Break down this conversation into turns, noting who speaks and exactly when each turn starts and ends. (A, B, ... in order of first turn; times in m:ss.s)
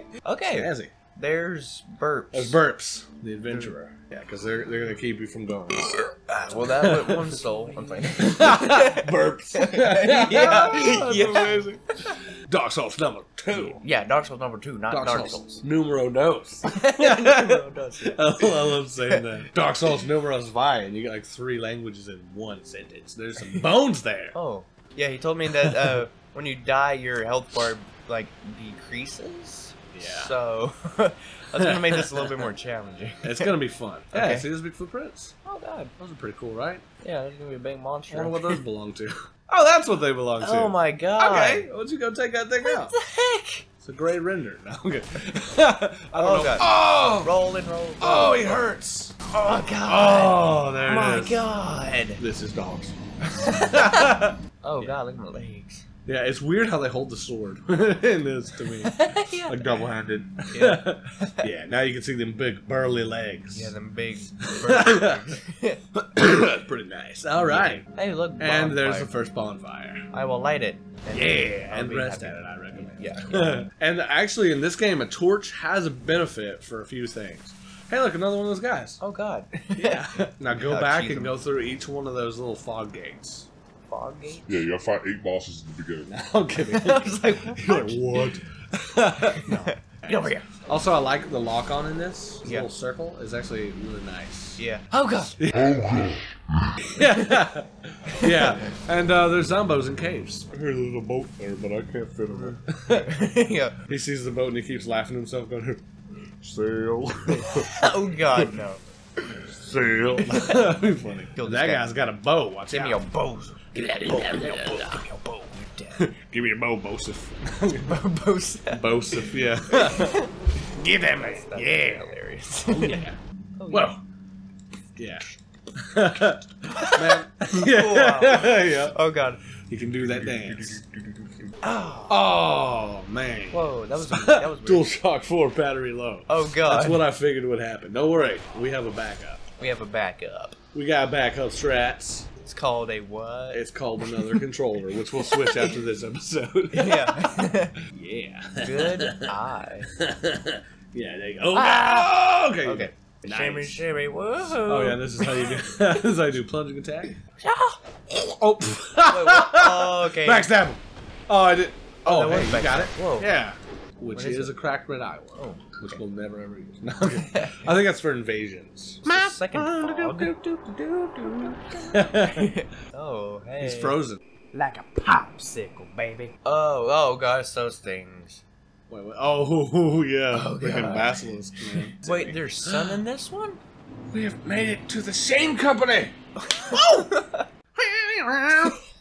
0:00.2-0:02.6 A
0:00.5-0:00.9 B
0:02.3-0:07.4 B
0:05.8-0:11.8 A
0:08.0-0:11.8 B
0:12.4-0:13.8 B
0:13.5-0:15.6 A
0:14.9-0:24.4 B
0:16.7-0:19.2 A
0:24.3-0:33.5 A
0:25.5-0:26.0 B
0:29.9-0:30.4 B
0:31.5-0:32.3 B
0:33.2-0:35.3 B
0:34.1-0:34.5 A
0:35.4-0:35.9 A
0:36.0-0:36.8 B
0:37.0-0:38.6 A
0:38.1-0:42.9 B
0:40.4-0:41.7 A
0:42.6-0:43.7 A
0:43.8-0:47.3 B
0:46.1-0:48.6 A
0:48.0-0:49.2 B
0:49.3-0:52.2 A
0:49.8-0:51.5 B
0:52.2-0:55.0 B
0:53.2-0:55.8 A
0:56.0-1:03.7 B
0:58.8-0:59.9 A
1:00.5-1:01.5 A
1:03.5-1:05.8 A
1:04.6-1:05.4 B
1:05.9-1:07.9 B
1:07.4-1:09.2 A
1:08.4-1:10.1 B
1:10.1-1:13.7 A
1:11.1-1:19.0 B
1:19.0-1:21.4 A
1:19.7-1:23.5 B
1:23.9-1:24.7 A
1:24.5-1:26.1 C
1:26.0-1:34.6 B
1:26.6-1:28.4 A
1:29.3-1:30.4 A
1:32.4-1:32.7 A
1:34.6-1:35.4 A
1:35.3-1:36.1 B
1:35.5-1:36.4 C
1:36.8-1:40.5 B
1:38.2-1:38.7 A
1:40.5-1:42.6 C
1:42.3-1:43.1 B
1:42.9-1:43.8 A
1:43.9-1:45.8 B
1:46.4-1:47.6 C
1:47.3-1:47.9 B
1:47.6-1:49.5 A
1:49.5-1:50.3 C
1:50.2-1:53.0 B
1:50.2-1:51.9 A
1:52.7-1:56.1 A
1:53.9-1:55.1 B
1:56.0-1:58.0 B
1:57.8-2:00.3 A
1:58.7-2:00.2 B
2:00.7-2:02.1 B
2:01.1-2:03.0 A
2:02.7-2:03.2 B
2:03.6-2:03.9 A
2:03.7-2:04.0 B
2:05.0-2:09.0 B
2:06.7-2:09.4 A
2:09.6-2:10.8 B
2:11.6-2:12.2 A
2:12.1-2:19.4 B
2:13.5-2:14.9 A
2:16.3-2:17.1 A
2:19.6-2:20.6 A
2:20.7-2:22.3 B
2:22.4-2:24.4 A
2:23.5-2:29.3 B
2:25.3-2:25.8 A
2:26.7-2:27.8 A
2:28.6-2:29.9 A
2:29.9-2:33.8 B
2:31.5-2:35.6 A
2:34.6-2:37.2 B
2:37.4-2:37.8 A
2:38.1-2:52.5 B
2:39.0-2:40.5 A
2:42.0-2:43.3 A
2:44.1-2:44.7 A
2:45.4-2:46.0 A
2:47.1-2:47.6 A
2:49.0-2:54.0 A
2:53.6-2:54.2 B
2:54.5-2:58.4 A
2:58.9-3:03.0 B
3:00.3-3:03.6 A
3:04.1-3:07.1 B
3:06.4-3:07.5 A
3:07.8-3:08.8 B